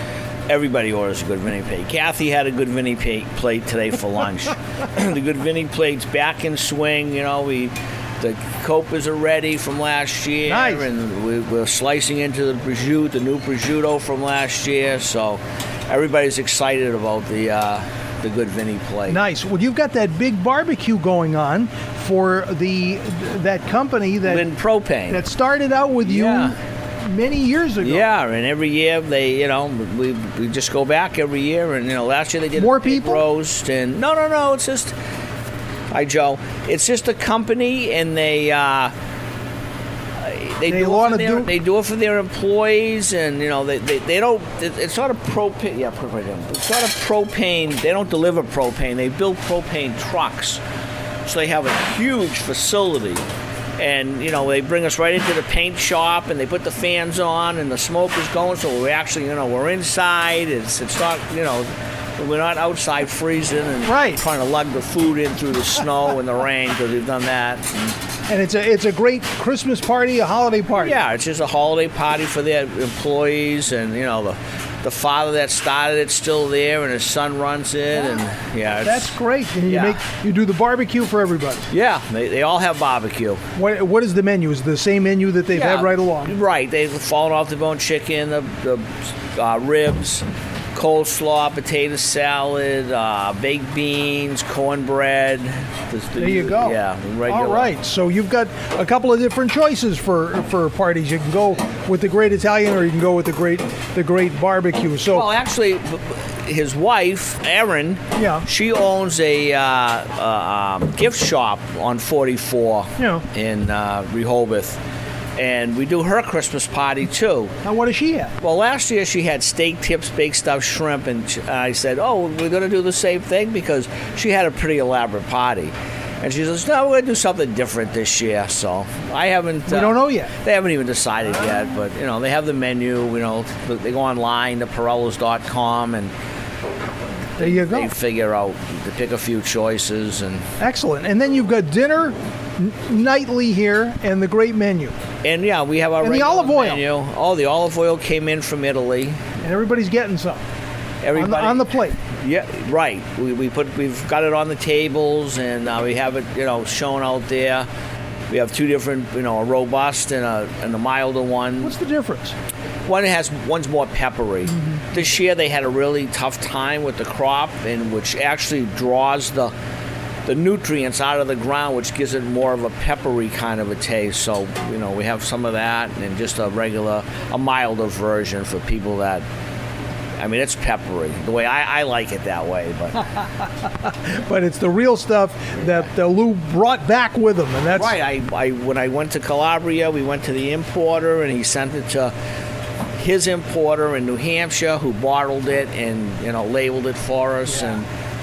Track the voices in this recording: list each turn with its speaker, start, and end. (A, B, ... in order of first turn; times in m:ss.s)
0:00.5-0:04.3 A
0:05.2-0:19.2 A
0:10.4-0:10.9 B
0:19.0-0:24.5 B
0:24.4-0:25.1 A
0:25.1-0:28.1 B
0:28.0-0:34.9 A
0:32.5-0:33.3 B
0:35.9-0:38.9 A
0:40.4-0:50.6 A
0:40.6-0:41.5 B
0:51.3-0:53.2 A
0:53.8-1:07.7 A
1:03.8-1:04.2 B
1:08.3-1:11.0 B
1:10.9-1:18.8 A
1:17.9-1:21.6 B
1:21.7-1:23.4 A
1:23.6-1:26.4 B
1:26.3-1:30.2 A
1:30.7-1:37.4 A
1:36.2-1:45.3 B
1:45.2-1:54.7 A
1:48.1-1:48.5 B
1:53.0-1:53.2 B
1:55.4-1:57.5 A
1:57.6-1:58.4 B
1:58.4-2:09.7 A
2:09.6-2:10.3 B
2:10.4-2:16.1 A
2:17.4-2:17.9 B
2:17.8-2:20.4 A
2:20.6-2:25.0 B
2:25.2-2:29.2 A
2:26.0-2:26.9 B
2:29.4-2:30.4 B
2:31.1-2:32.0 B
2:32.2-2:37.7 A
2:38.3-2:41.7 A
2:41.6-2:42.4 B
2:42.9-2:49.5 A
2:44.4-2:45.2 B
2:50.2-2:59.2 A
3:00.2-3:03.0 A
3:03.2-3:08.0 B
3:07.9-3:12.1 A
3:13.0-3:17.6 A
3:17.4-3:17.8 B